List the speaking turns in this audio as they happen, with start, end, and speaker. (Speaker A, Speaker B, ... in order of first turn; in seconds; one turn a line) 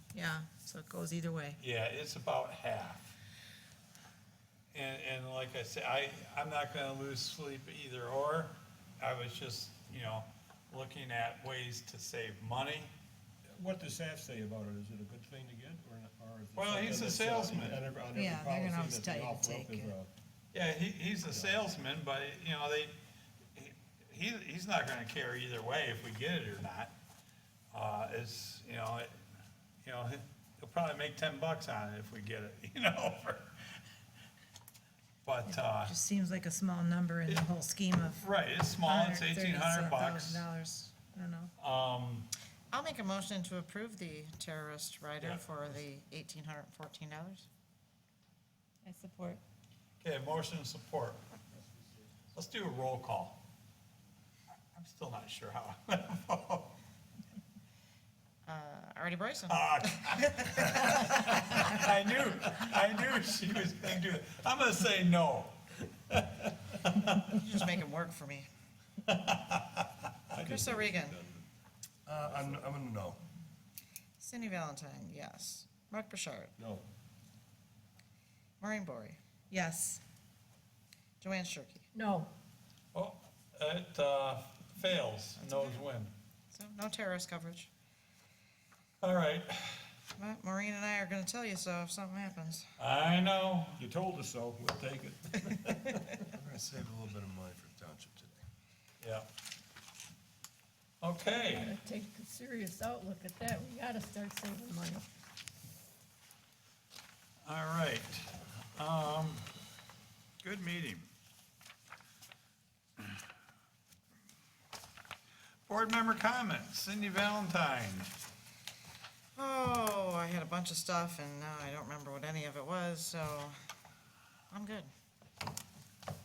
Speaker A: 0.1-1.6
Speaker B: 1.6-3.1
Speaker B: 4.7-12.9
Speaker C: 13.5-20.1
Speaker B: 16.6-17.8
Speaker A: 18.1-19.9
Speaker B: 20.5-22.9
Speaker C: 21.3-21.6
Speaker B: 23.5-26.9
Speaker B: 27.7-29.1
Speaker B: 29.8-33.5
Speaker B: 35.2-35.9
Speaker A: 35.5-38.2
Speaker B: 38.2-40.5
Speaker A: 38.8-41.5
Speaker B: 41.6-42.3
Speaker D: 42.7-47.5
Speaker B: 45.2-45.5
Speaker A: 48.8-49.4
Speaker B: 50.0-51.2
Speaker B: 52.3-53.4
Speaker B: 54.7-56.7
Speaker D: 58.4-61.4
Speaker B: 59.5-67.3
Speaker D: 67.2-68.5
Speaker B: 69.1-69.8
Speaker C: 70.3-71.5
Speaker D: 70.3-71.2
Speaker E: 72.1-73.2
Speaker C: 72.1-72.7
Speaker D: 74.2-76.5
Speaker C: 76.6-76.8
Speaker D: 78.6-79.2
Speaker A: 79.5-80.0
Speaker D: 81.2-81.8
Speaker F: 81.9-82.3
Speaker B: 82.9-86.1
Speaker D: 85.3-85.9
Speaker D: 86.5-87.7
Speaker B: 89.0-89.9
Speaker D: 90.2-92.7
Speaker B: 92.8-93.8
Speaker C: 93.8-96.3
Speaker E: 96.3-98.4
Speaker B: 99.0-99.3
Speaker B: 101.0-101.7
Speaker F: 101.3-105.0
Speaker B: 107.4-109.5
Speaker B: 110.4-111.1
Speaker B: 115.7-118.1
Speaker D: 119.3-123.5
Speaker D: 124.5-124.9